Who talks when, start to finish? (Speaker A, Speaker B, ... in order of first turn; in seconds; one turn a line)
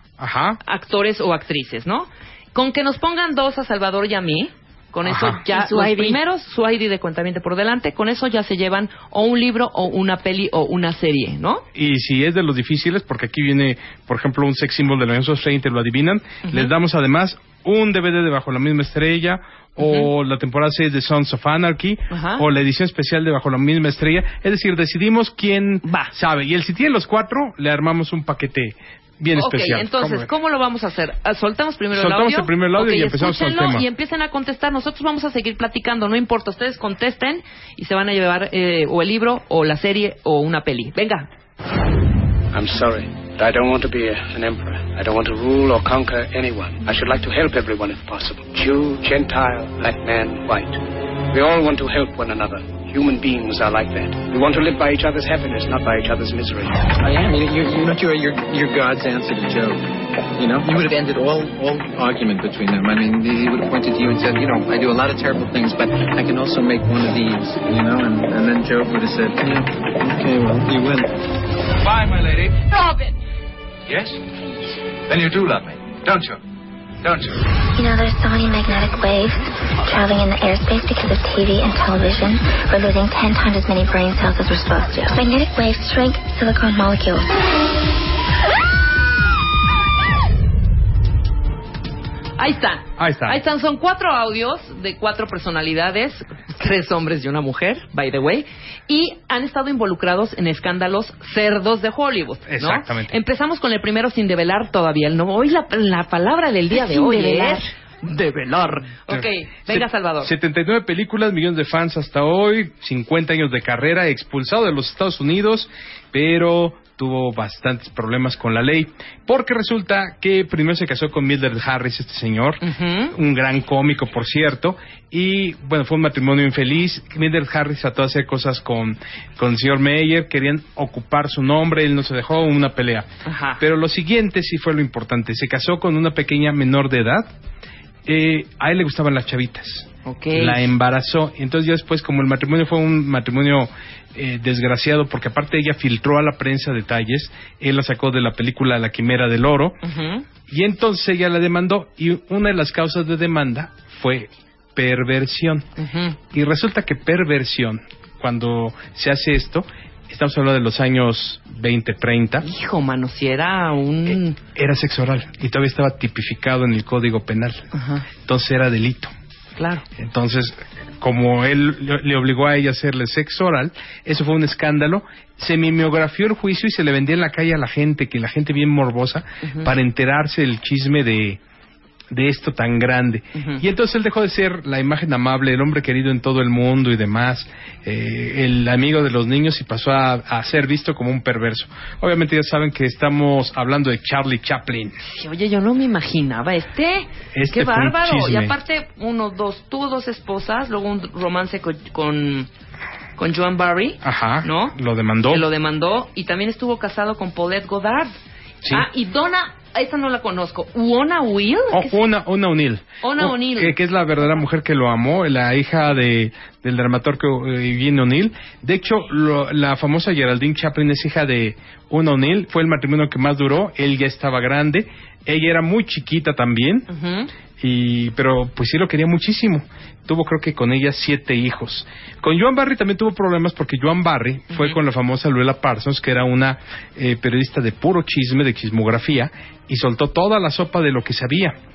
Speaker A: 0.2-0.6
Speaker B: 0.6-11.6
Speaker A: 5.0-5.5
Speaker A: 11.7-30.3
Speaker B: 19.8-20.1
Speaker B: 22.1-22.5
Speaker B: 25.8-26.1
Speaker B: 29.4-41.3
Speaker A: 31.9-33.9
Speaker C: 42.5-50.8
Speaker C: 51.3-57.3
Speaker D: 57.0-59.8
Speaker D: 60.4-71.1
Speaker E: 71.9-72.5
Speaker E: 73.9-74.2
Speaker E: 75.1-76.4
Speaker E: 77.0-77.4
Speaker F: 77.8-87.3
Speaker B: 92.4-110.3
Speaker A: 93.0-93.4
Speaker A: 102.5-103.2
Speaker A: 109.1-133.1
Speaker B: 122.6-123.1
Speaker B: 133.2-133.6
Speaker A: 133.6-137.3
Speaker A: 138.1-149.8
Speaker B: 140.1-140.7
Speaker B: 149.8-150.3
Speaker A: 150.5-155.7
Speaker B: 155.8-156.2
Speaker A: 156.3-162.5
Speaker B: 162.4-164.4
Speaker A: 164.1-167.6
Speaker B: 167.8-168.1
Speaker A: 168.2-169.1
Speaker B: 169.6-169.8
Speaker A: 169.9-181.4
Speaker B: 179.4-179.7
Speaker A: 182.1-195.0
Speaker B: 183.3-183.6
Speaker B: 195.0-202.5
Speaker A: 197.3-198.6
Speaker B: 203.2-204.8
Speaker A: 204.0-205.5
Speaker B: 205.3-208.1
Speaker B: 208.7-212.0
Speaker A: 211.7-226.9
Speaker B: 213.0-213.8
Speaker B: 226.9-227.3
Speaker A: 227.6-241.6
Speaker B: 234.5-234.8